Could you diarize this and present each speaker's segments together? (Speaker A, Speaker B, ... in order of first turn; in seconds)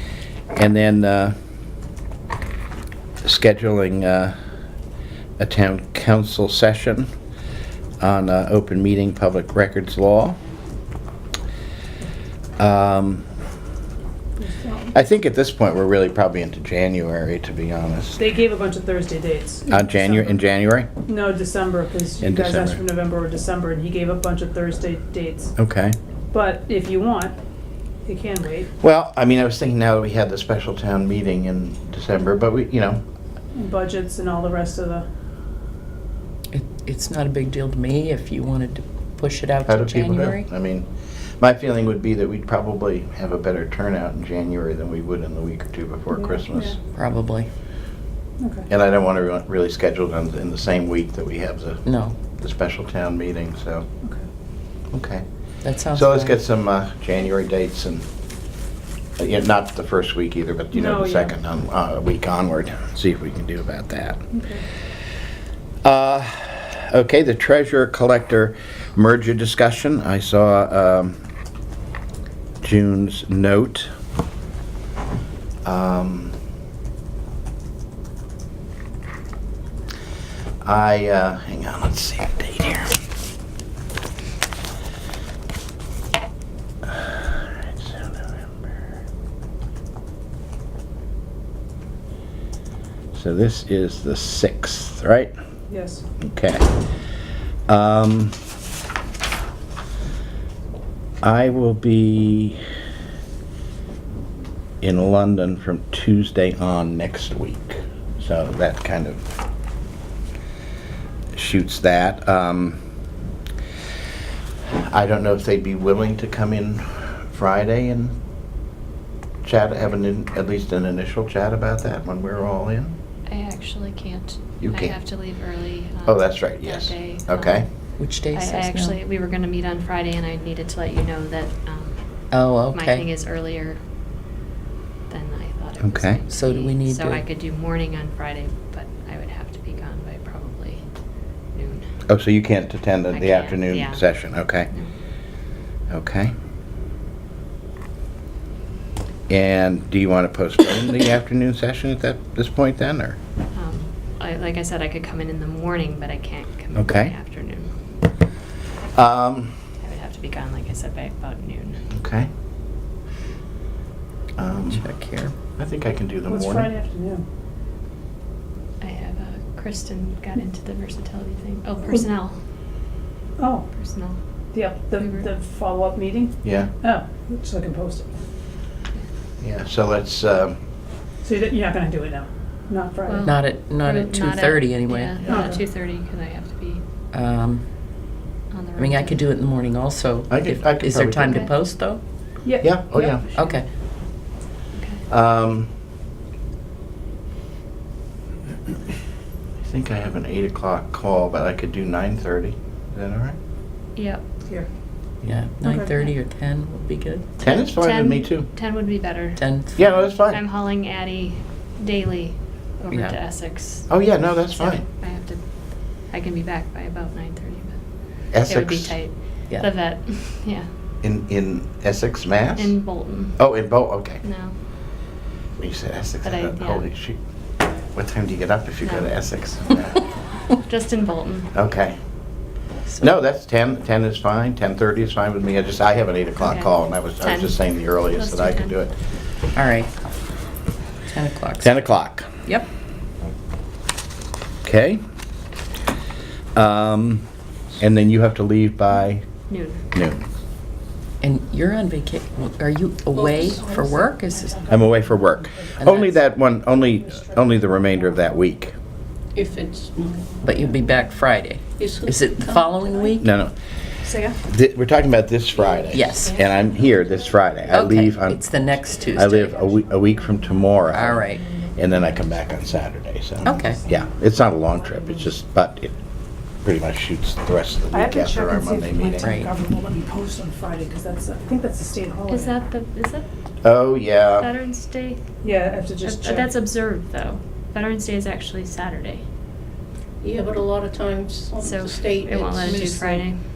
Speaker A: 0.5-1.3, 3.2-4.3, 5.4-7.1, 8.0-10.4, 12.6-13.2, 14.9-18.2, 19.7-20.9, 22.2-22.8, 25.6-25.9, 28.8-33.0, 39.7-40.9, 41.4-46.8, 48.7-51.8, 52.4-53.9, 54.9-55.2, 55.9-58.0, 59.2-64.2, 65.8-71.2, 72.6-73.9, 75.6-76.3, 80.6-82.9, 86.8-88.2, 93.1-95.3, 96.2-96.7, 97.7-98.4, 101.2-102.6, 104.8-109.2, 111.3-112.8, 114.9-118.2, 119.4-123.0, 124.6-125.0, 126.0-127.6, 135.8-136.2, 142.1-144.7, 145.9-146.3, 149.3-153.2, 156.7-157.1, 158.9-159.5, 161.9-162.3, 164.4-164.8, 165.6-166.7, 176.4-176.7, 179.4-180.6, 190.3-191.5, 192.6-193.2, 195.1-195.7, 199.6-203.3, 207.4-208.5, 209.8-210.4, 213.9-214.8, 218.3-219.0, 221.0-222.8, 223.4-224.2, 225.6-227.2, 227.9-230.0, 231.5-232.0, 233.0-238.9, 241.6-242.3, 244.6-245.0, 246.6-247.2, 247.8-249.2, 249.9-250.2, 254.7-258.7, 263.2-263.5, 264.4-268.4, 269.1-275.9, 276.6-279.3, 283.6-284.5
Speaker B: 14.4-14.9, 18.2-20.4, 21.1-25.5, 26.3-27.3, 28.0-28.7, 33.5-35.1, 46.1-46.8, 48.4-48.7, 60.7-61.3, 64.3-64.6, 95.7-96.0, 166.3-167.2, 173.4-173.7, 174.5-178.1, 181.2-183.3, 185.3-185.6, 192.4-192.7, 205.6-205.9, 254.7-255.0, 264.0-264.4, 273.6-274.0, 274.8-275.3, 277.9-282.6, 285.4-286.5, 292.6-293.2
Speaker C: 36.5-40.5, 46.9-47.5, 51.9-52.1, 55.6-56.4, 128.0-129.0, 132.3-133.1, 136.3-137.2, 164.7-165.3, 183.2-185.2, 187.1-187.7, 188.8-192.0, 193.3-193.7, 205.2-207.4, 209.4-209.8, 232.9-233.1, 239.5-239.9, 241.1-241.9, 251.2-254.6, 255.8-256.2, 260.4-263.3, 265.9-266.3, 267.7-269.5, 270.9-271.4, 273.4-273.8, 279.2-279.5
Speaker D: 123.3-127.7, 128.3-132.0, 132.7-133.8, 135.1-140.8, 141.5-141.9, 143.1-144.9, 153.5-157.7, 159.8-161.8, 168.8-172.4, 173.8-174.2, 175.0-175.3, 183.0-186.8, 188.5-189.2, 191.2-191.5, 192.9-193.6, 194.7-195.0, 203.9-204.2, 207.5-209.4, 209.9-220.7, 222.6-223.4, 224.2-224.5, 226.2-226.9, 228.8-229.1, 230.5-231.5, 236.4-238.8, 249.5-249.8, 282.3-283.3, 284.3-285.2, 286.0-289.2, 291.6-293.4
Speaker E: 253.1-254.1, 259.3-260.4, 261.8-263.1, 265.5-267.1, 269.3-269.6, 290.2-292.7